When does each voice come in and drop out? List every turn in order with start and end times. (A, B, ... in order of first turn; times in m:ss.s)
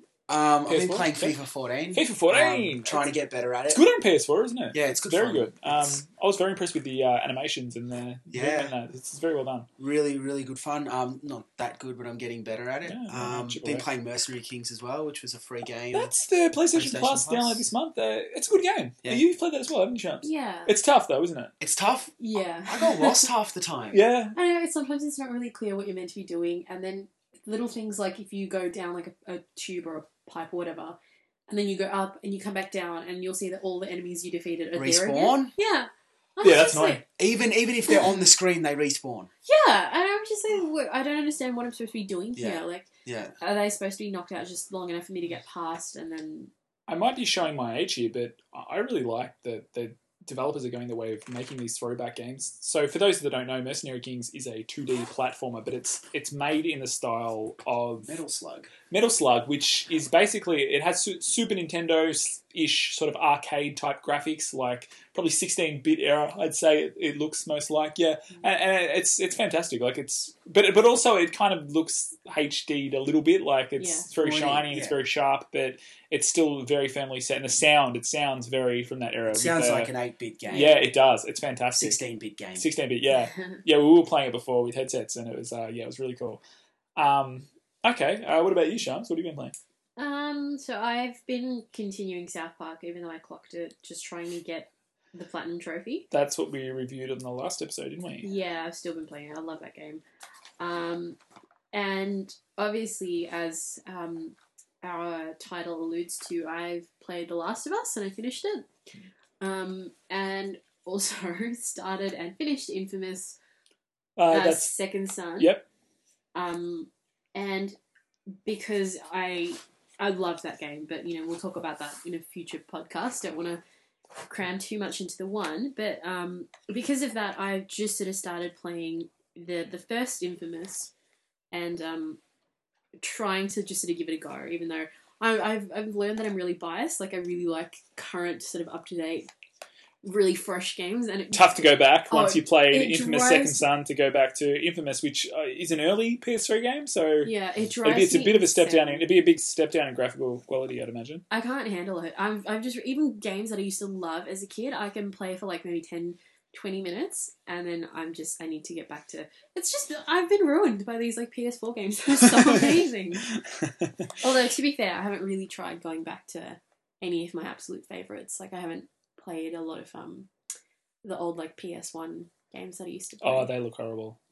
0:00.3-0:03.8 A
0:00.7-0:01.4 B
0:01.9-0:03.1 B
0:03.7-0:09.7 B
0:04.7-0:05.5 A
0:08.3-0:08.8 A
0:09.8-0:16.1 A
0:12.8-0:13.9 B
0:15.9-0:21.5 B
0:16.7-0:17.7 A
0:20.2-0:20.7 C
0:21.6-0:22.1 A
0:22.2-0:23.3 C
0:22.7-0:24.0 A
0:23.9-0:24.4 B
0:24.4-0:37.0 C
0:34.8-0:35.5 A
0:36.4-0:37.0 B
0:37.2-0:39.3 A
0:39.5-0:42.9 C
0:42.4-0:43.4 A
0:43.4-0:46.5 C
0:46.9-0:58.2 B
0:58.0-0:58.7 A
0:58.9-1:19.9 B
1:13.8-1:14.1 C
1:14.2-1:15.0 A
1:19.3-1:20.8 A
1:20.5-1:22.0 B
1:21.8-1:22.7 A
1:22.6-1:26.4 B
1:23.1-1:23.6 C
1:27.0-1:29.5 B
1:30.0-1:36.1 C
1:36.1-1:38.3 B
1:38.2-1:40.0 C
1:40.6-1:41.2 C
1:41.7-1:48.7 C
1:49.4-1:53.4 C
1:54.2-1:54.7 B
1:54.3-1:55.6 C
1:55.4-1:55.6 B
1:56.3-1:57.8 C
1:58.4-2:03.6 C
2:04.3-2:10.9 C
2:11.5-2:12.2 C
2:13.0-2:19.3 C
2:20.0-2:23.6 C
2:21.3-2:27.3 B
2:27.2-2:29.1 C
2:27.8-2:31.2 B
2:31.3-2:43.3 C
2:42.3-2:42.6 B
2:43.3-2:44.1 B
2:44.2-2:50.3 C
2:51.0-2:53.5 C
2:53.2-2:54.2 B